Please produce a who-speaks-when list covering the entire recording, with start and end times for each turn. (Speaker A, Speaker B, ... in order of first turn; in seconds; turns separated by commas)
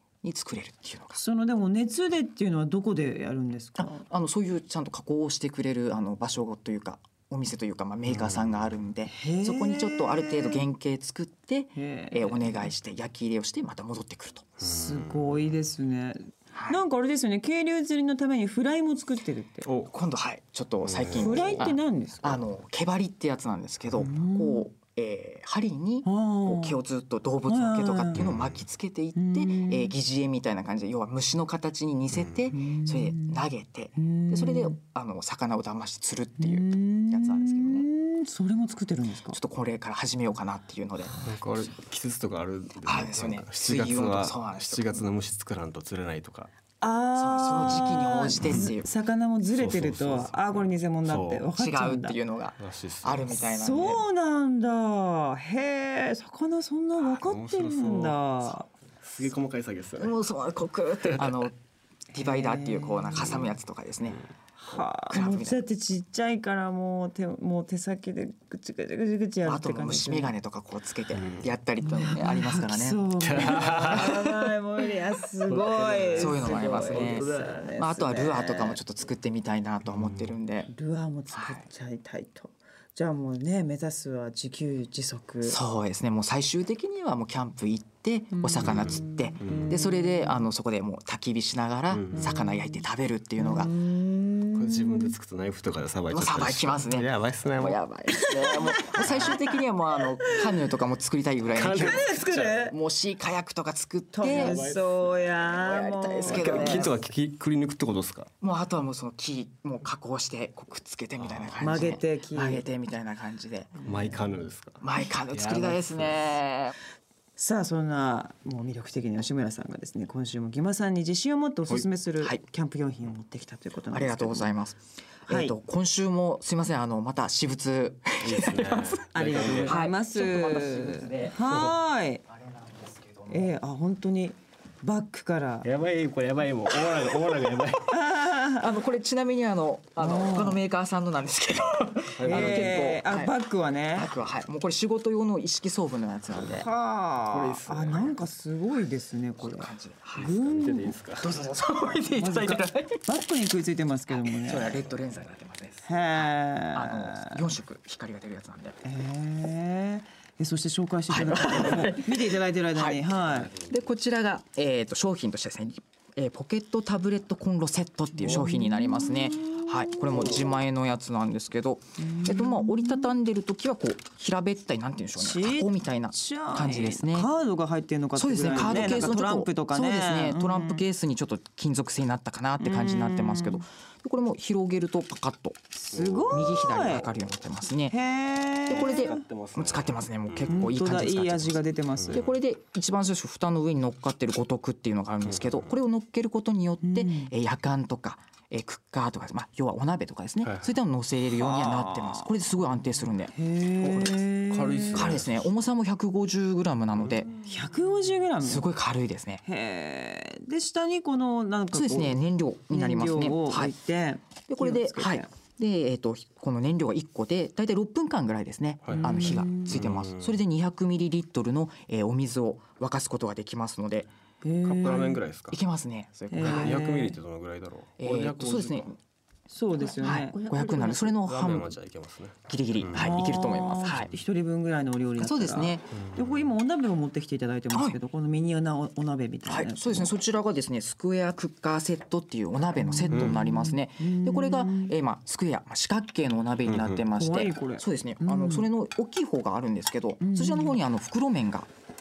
Speaker A: 0.2-1.2, Speaker B: 1.1-4.0, Speaker A: 3.8-14.5, Speaker C: 8.1-8.5, Speaker B: 9.1-10.7, Speaker B: 11.8-12.7, Speaker C: 14.6-15.5, Speaker B: 14.6-19.7, Speaker A: 16.5-16.8, Speaker C: 19.6-19.9, Speaker A: 19.9-37.9, Speaker C: 20.8-21.6, Speaker B: 21.1-22.4, Speaker B: 24.0-24.7, Speaker B: 26.0-26.8, Speaker B: 27.5-28.3, Speaker C: 28.1-28.6, Speaker B: 29.1-29.9, Speaker C: 32.1-32.4, Speaker B: 32.5-33.4, Speaker B: 34.0-34.8, Speaker B: 36.4-39.4, Speaker A: 39.3-41.2, Speaker C: 41.2-46.5, Speaker A: 42.8-45.0, Speaker B: 46.8-52.2, Speaker A: 47.1-48.9, Speaker C: 47.6-48.7, Speaker C: 49.5-51.5, Speaker A: 51.5-54.0, Speaker C: 52.6-53.4, Speaker B: 53.4-58.7, Speaker C: 57.0-58.2, Speaker C: 59.0-60.1, Speaker A: 60.0-61.6, Speaker C: 61.0-61.4, Speaker B: 62.1-63.5, Speaker A: 62.1-64.2, Speaker B: 64.6-70.3, Speaker A: 65.1-65.6, Speaker A: 69.4-74.5, Speaker C: 71.1-71.5, Speaker B: 71.8-78.8, Speaker C: 73.2-74.2, Speaker C: 75.4-77.6, Speaker A: 76.1-80.7, Speaker C: 79.8-80.3, Speaker B: 80.7-85.6, Speaker A: 81.3-81.6, Speaker A: 85.4-93.7, Speaker B: 88.3-90.5, Speaker C: 88.6-89.8, Speaker C: 91.9-92.4, Speaker B: 92.1-92.8, Speaker B: 93.4-95.1, Speaker C: 94.5-97.8, Speaker A: 96.1-102.1, Speaker B: 98.1-99.6, Speaker C: 98.9-99.3, Speaker C: 101.5-102.6, Speaker B: 101.6-102.8, Speaker A: 102.7-104.7, Speaker B: 104.1-106.9, Speaker C: 104.3-105.3, Speaker A: 105.5-107.0, Speaker C: 106.2-108.3, Speaker A: 108.4-113.7, Speaker C: 111.2-111.6, Speaker B: 111.6-112.6, Speaker B: 113.7-114.3, Speaker C: 113.8-116.3, Speaker A: 114.8-116.7, Speaker B: 117.4-124.5, Speaker A: 123.9-131.5, Speaker B: 125.3-125.6, Speaker C: 128.2-129.8, Speaker B: 129.1-132.2, Speaker A: 132.3-133.5, Speaker B: 133.3-135.7, Speaker C: 135.6-137.9, Speaker A: 136.7-137.4, Speaker B: 137.9-138.7, Speaker A: 138.1-143.3, Speaker B: 140.0-140.6, Speaker C: 142.2-142.9, Speaker B: 142.2-144.1, Speaker A: 143.9-146.7, Speaker B: 146.4-150.9, Speaker C: 147.2-148.1, Speaker A: 149.4-150.6, Speaker C: 150.4-151.3, Speaker A: 151.2-153.1, Speaker B: 152.1-154.8, Speaker A: 154.1-158.8, Speaker B: 155.8-157.4, Speaker B: 158.8-163.5, Speaker A: 161.1-177.3, Speaker B: 168.1-170.5, Speaker B: 172.0-173.1, Speaker B: 175.2-180.8, Speaker A: 178.2-185.6, Speaker B: 182.6-183.6, Speaker B: 185.7-187.1, Speaker C: 185.9-187.0, Speaker A: 186.2-187.9, Speaker B: 187.9-189.3, Speaker A: 188.7-191.6, Speaker C: 188.8-190.7, Speaker B: 190.5-192.3, Speaker C: 192.0-192.4, Speaker A: 192.1-204.2, Speaker C: 195.2-195.7, Speaker B: 196.8-197.3, Speaker C: 200.4-200.7, Speaker B: 201.3-202.3, Speaker B: 203.3-205.1, Speaker C: 203.9-205.5, Speaker A: 204.9-207.3, Speaker B: 207.4-208.7, Speaker A: 208.4-209.4, Speaker B: 209.4-212.2, Speaker A: 211.7-213.7, Speaker B: 212.7-215.3, Speaker A: 214.5-224.1, Speaker C: 218.8-220.4, Speaker B: 218.9-219.8, Speaker B: 224.4-225.2, Speaker C: 224.6-225.6, Speaker A: 225.5-226.8, Speaker B: 226.3-227.2, Speaker C: 226.4-228.9, Speaker A: 228.0-229.0, Speaker B: 229.5-231.1, Speaker A: 229.9-231.7, Speaker C: 231.2-233.2, Speaker A: 232.5-234.1, Speaker B: 232.9-240.2, Speaker C: 233.8-234.1, Speaker A: 235.2-235.9, Speaker C: 235.9-236.5, Speaker A: 239.5-251.7, Speaker B: 242.8-244.9, Speaker C: 243.1-243.3, Speaker C: 246.7-247.0, Speaker B: 247.1-248.7, Speaker B: 250.2-250.8